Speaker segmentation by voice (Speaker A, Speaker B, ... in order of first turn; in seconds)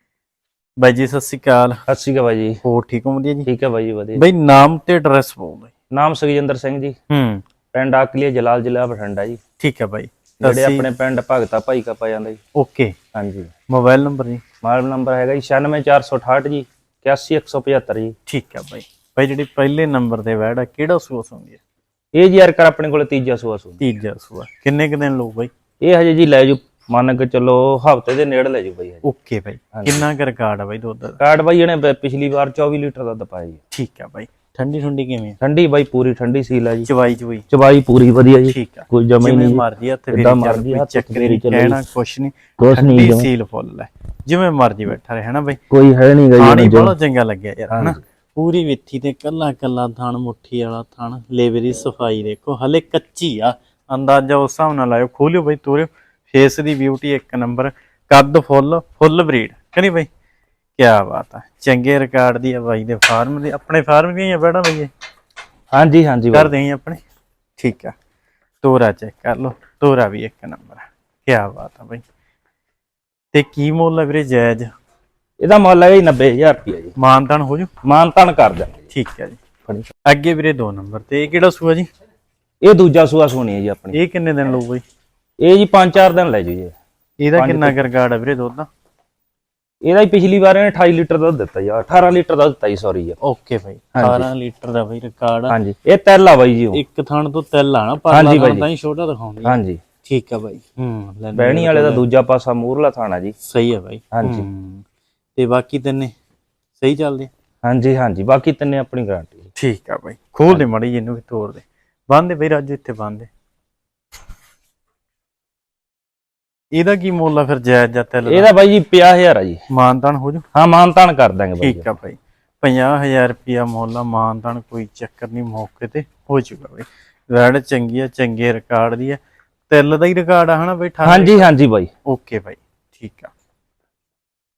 Speaker A: 0.8-1.8, 2.6-3.5, 4.2-5.7, 7.1-7.4, 9.6-10.9, 12.6-13.0, 13.7-14.4, 18.3-21.6, 23.8-25.5, 29.0-31.2, 33.7-35.4, 36.9-37.5, 38.4-45.6, 46.4-60.1, 60.8-64.9, 66.3-67.0, 67.6-67.9, 68.6-72.0, 73.3-74.7, 77.0-77.7, 78.9-79.4, 80.1-81.9, 83.9-84.8, 87.2-88.7, 93.2-95.6, 96.7-102.1, 103.4-104.8, 105.4-106.1, 106.8-107.3, 109.6-113.3, 116.7-118.5, 119.7-120.5, 121.6-131.4, 132.1-133.3
Speaker B: 1.9-2.6, 3.5-4.2, 5.9-7.0, 7.7-9.4, 10.4-12.4, 13.2-13.5, 14.6-18.1, 22.1-23.8, 25.8-29.0, 31.2-33.6, 35.4-36.9, 37.5-41.8, 42.6-43.3, 45.7-46.9, 47.7-48.0, 65.7-66.5, 75.4-77.0, 77.8-78.8, 82.6-84.0, 85.4-86.7, 87.4-87.8, 89.8-93.2, 94.0-94.3, 95.5-96.8, 98.1-98.7, 99.5-99.8, 101.3-103.4, 104.1-104.5, 107.6-109.5, 118.3-119.6, 120.5-121.9, 131.0-131.9